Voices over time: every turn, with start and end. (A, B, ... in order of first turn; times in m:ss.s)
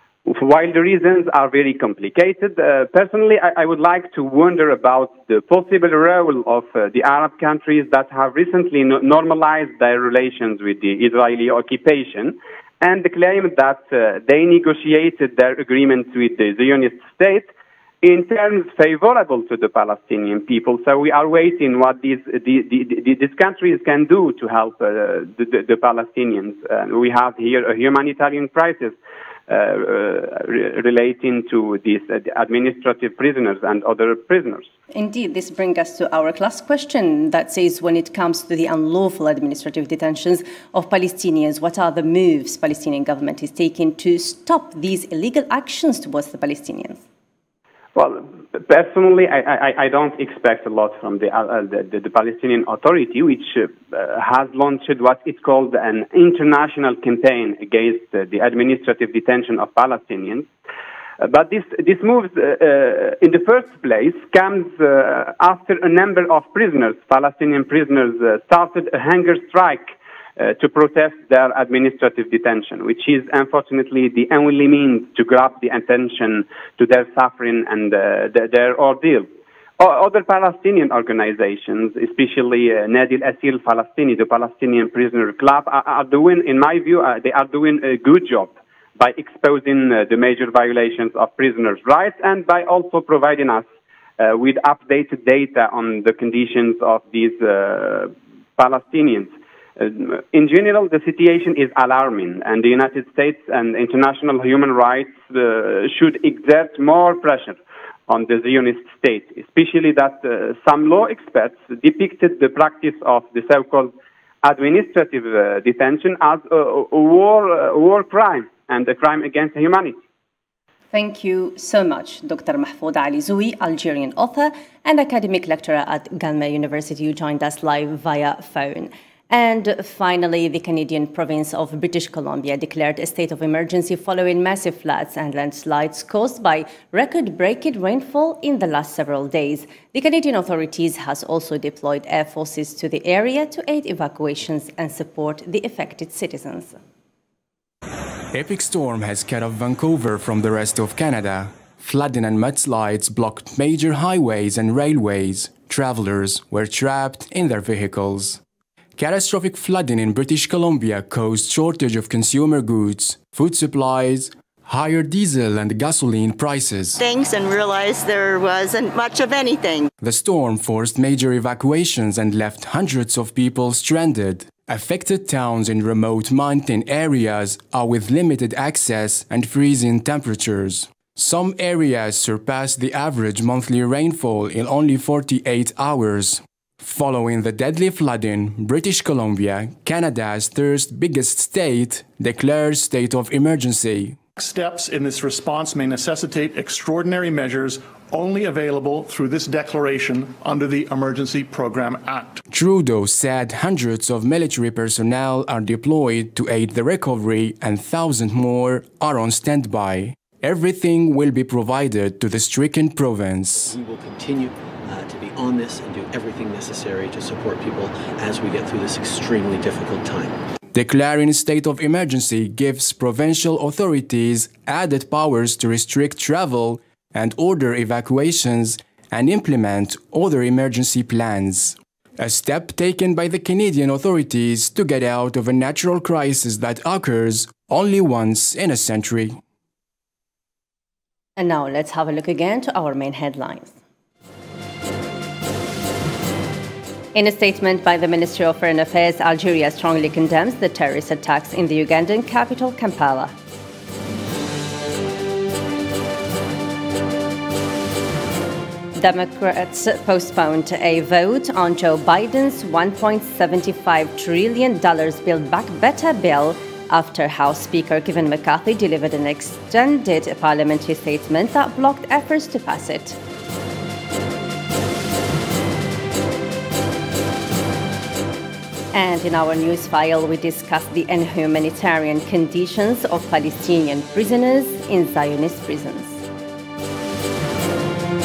0:00.2-0:17.5 A
0:18.0-0:29.0 A
0:29.5-0:34.7 A
0:34.9-0:47.0 B
0:48.0-1:00.5 A
1:01.2-1:19.3 A
1:19.8-1:33.7 A
1:34.2-2:00.0 A
2:00.9-2:26.8 B
2:28.3-2:38.4 C
2:39.0-2:47.0 C
2:47.0-2:49.9 D
2:50.0-3:14.2 C
3:14.4-3:22.4 E
3:22.5-3:33.8 C
3:33.6-3:40.4 F
3:40.7-3:59.4 C
4:01.4-4:03.7 B
4:07.1-4:13.3 B
4:19.0-4:33.2 B
4:38.9-4:46.2 B